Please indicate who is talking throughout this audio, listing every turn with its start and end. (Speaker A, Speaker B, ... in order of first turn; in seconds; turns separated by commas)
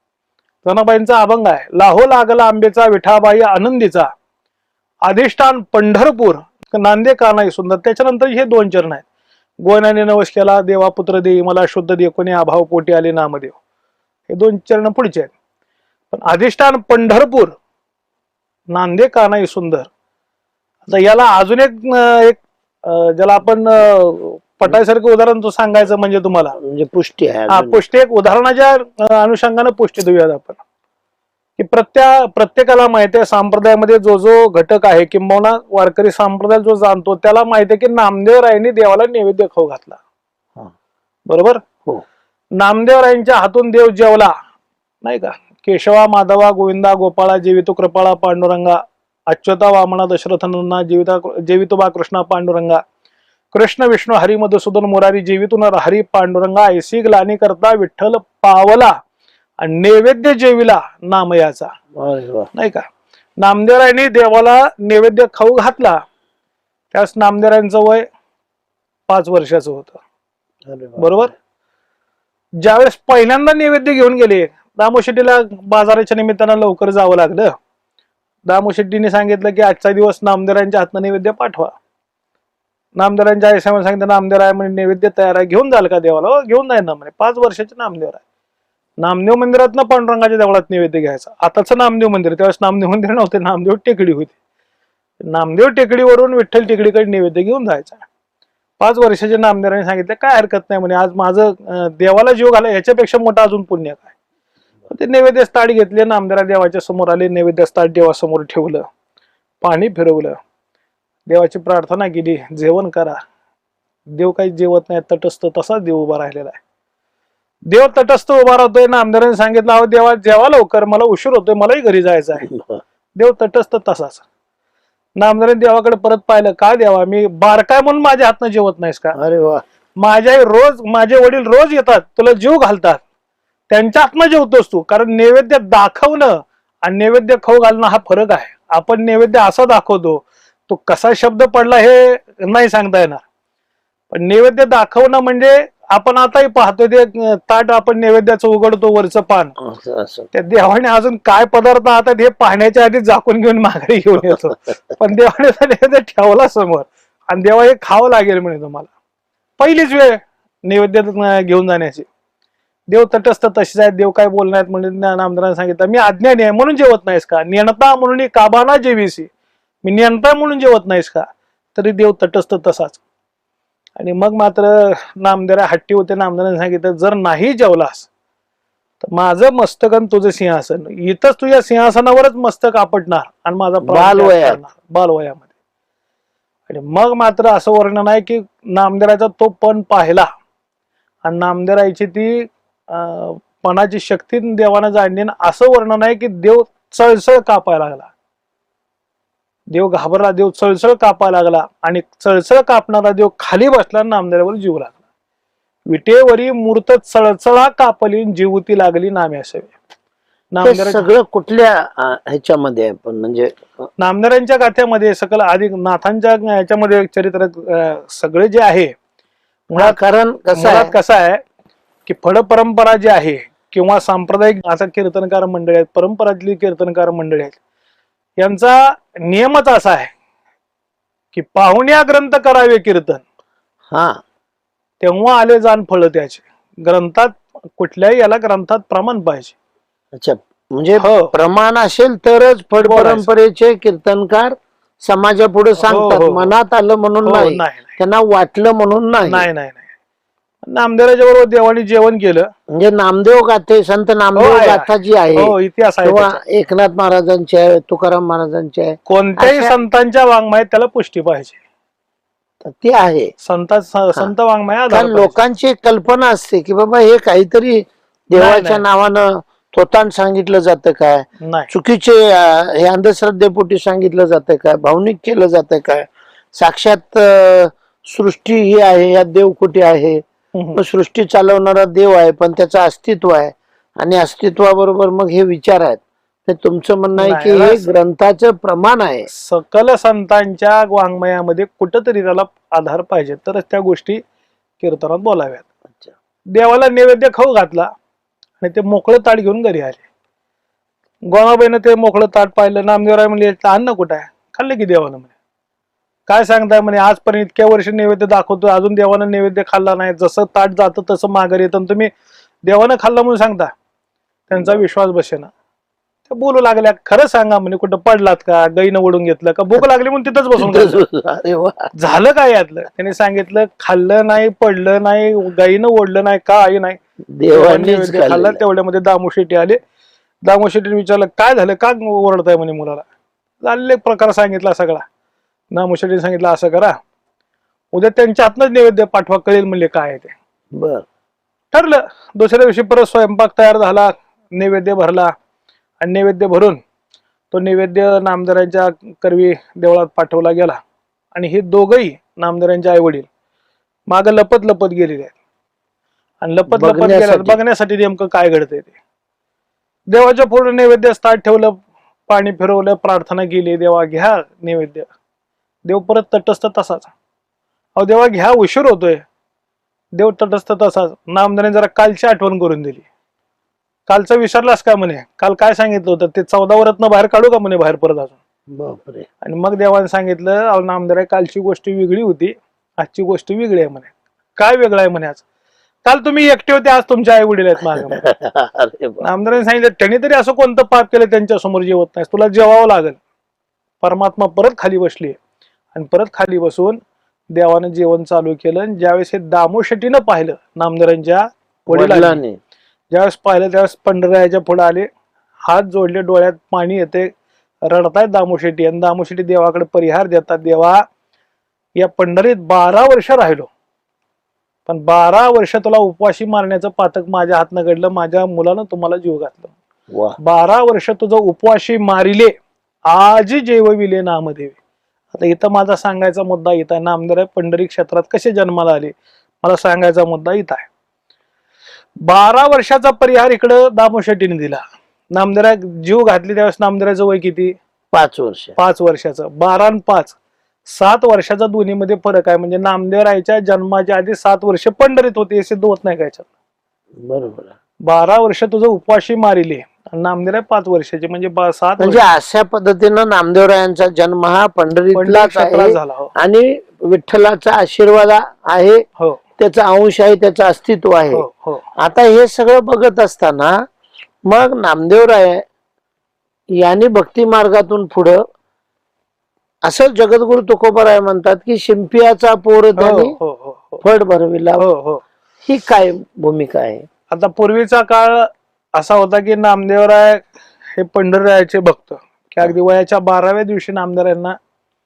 Speaker A: 0.6-4.1, Speaker A: 5.0-9.1, Speaker A: 9.6-13.6, Speaker A: 14.3-15.3, Speaker A: 16.1-17.5, Speaker A: 18.7-19.9, Speaker A: 20.9-26.6, Speaker B: 26.6-27.8, Speaker A: 27.5-30.6, Speaker A: 31.6-40.0, Speaker A: 41.3-41.6, Speaker A: 42.6-44.3, Speaker A: 45.0-52.8, Speaker A: 53.5-58.9, Speaker A: 59.6-61.7, Speaker B: 62.0-62.5, Speaker A: 62.5-62.9, Speaker A: 63.4-66.0, Speaker A: 66.9-68.1, Speaker A: 69.1-70.0, Speaker B: 70.7-71.3, Speaker A: 71.0-71.3, Speaker A: 72.6-77.5, Speaker A: 78.5-81.7, Speaker A: 83.0-88.2, Speaker A: 89.0-94.3, Speaker A: 95.2-98.0, Speaker A: 98.8-104.1, Speaker A: 104.9-108.9, Speaker A: 109.6-110.4, Speaker A: 111.3-113.2, Speaker A: 114.1-116.6, Speaker A: 117.7-122.5, Speaker B: 122.5-122.8, Speaker A: 123.2-124.2, Speaker A: 125.2-129.2, Speaker B: 129.2-129.6, Speaker A: 130.0-133.0, Speaker A: 133.7-143.2, Speaker A: 144.1-149.6, Speaker B: 149.6-150.3, Speaker A: 150.3-158.9, Speaker A: 159.6-162.1, Speaker A: 162.9-169.3, Speaker A: 169.8-173.0, Speaker A: 174.0-178.1, Speaker A: 179.0-185.5, Speaker B: 183.8-184.6, Speaker A: 186.7-190.3, Speaker A: 191.2-198.1, Speaker A: 199.7-205.0, Speaker A: 205.9-209.7, Speaker A: 210.5-211.1, Speaker B: 210.6-213.6, Speaker A: 214.0-218.9, Speaker A: 219.7-220.0, Speaker B: 219.8-220.9, Speaker A: 220.6-221.4, Speaker A: 222.1-227.6, Speaker A: 228.4-230.1, Speaker A: 231.3-233.2, Speaker B: 233.9-234.2, Speaker A: 235.0-239.6, Speaker B: 240.2-249.5, Speaker A: 241.0-241.4, Speaker A: 242.8-243.3, Speaker A: 245.8-246.6, Speaker A: 247.2-247.9, Speaker A: 249.2-249.9, Speaker A: 250.6-252.5, Speaker B: 252.7-259.8, Speaker A: 254.3-256.4, Speaker A: 259.1-261.6, Speaker B: 262.6-263.3, Speaker A: 263.4-265.4, Speaker B: 264.9-280.2, Speaker A: 268.3-268.8, Speaker A: 271.4-271.7, Speaker A: 280.5-280.8, Speaker B: 280.8-289.3, Speaker A: 287.2-287.9, Speaker A: 289.3-294.2, Speaker A: 294.8-295.7, Speaker A: 296.5-297.9, Speaker A: 298.6-300.0, Speaker A: 301.3-305.3, Speaker A: 306.3-312.1, Speaker A: 312.6-313.7, Speaker A: 314.5-315.5, Speaker B: 314.5-314.8, Speaker A: 316.3-321.0, Speaker B: 320.6-321.9, Speaker A: 321.9-329.8, Speaker B: 327.3-328.6, Speaker A: 330.4-333.1, Speaker A: 333.6-335.1, Speaker A: 335.7-337.0, Speaker A: 337.9-340.3, Speaker B: 340.8-341.1, Speaker A: 341.7-345.3, Speaker A: 346.0-346.8, Speaker A: 347.5-350.8, Speaker A: 351.3-353.3, Speaker A: 354.1-355.3, Speaker A: 356.4-358.9, Speaker B: 356.7-357.6, Speaker A: 360.1-365.1, Speaker A: 365.9-367.1, Speaker A: 367.9-369.2, Speaker A: 370.1-373.1, Speaker A: 374.1-378.4, Speaker B: 378.7-379.3, Speaker A: 379.4-385.4, Speaker A: 386.1-388.2, Speaker B: 388.1-389.3, Speaker A: 389.2-393.2, Speaker A: 394.0-395.4, Speaker A: 395.9-397.0, Speaker A: 397.5-402.4, Speaker B: 401.9-402.6, Speaker A: 403.1-405.1, Speaker A: 405.7-407.3, Speaker A: 407.9-411.0, Speaker A: 412.0-413.7, Speaker A: 414.9-419.8, Speaker B: 420.1-420.4, Speaker A: 420.4-422.5, Speaker A: 423.1-424.8, Speaker A: 425.3-430.9, Speaker A: 432.2-434.8, Speaker A: 435.3-437.8, Speaker B: 438.1-438.8, Speaker A: 438.8-440.4, Speaker A: 440.9-446.5, Speaker B: 447.2-447.7, Speaker A: 448.1-452.3, Speaker B: 452.0-459.0, Speaker A: 455.1-456.3, Speaker B: 459.6-461.4, Speaker A: 461.3-461.9, Speaker B: 462.0-463.8, Speaker B: 464.5-465.6, Speaker B: 466.7-468.4, Speaker B: 469.8-473.4, Speaker A: 473.0-474.0, Speaker B: 474.0-474.8, Speaker A: 474.8-475.2, Speaker B: 475.6-477.1, Speaker A: 477.3-484.6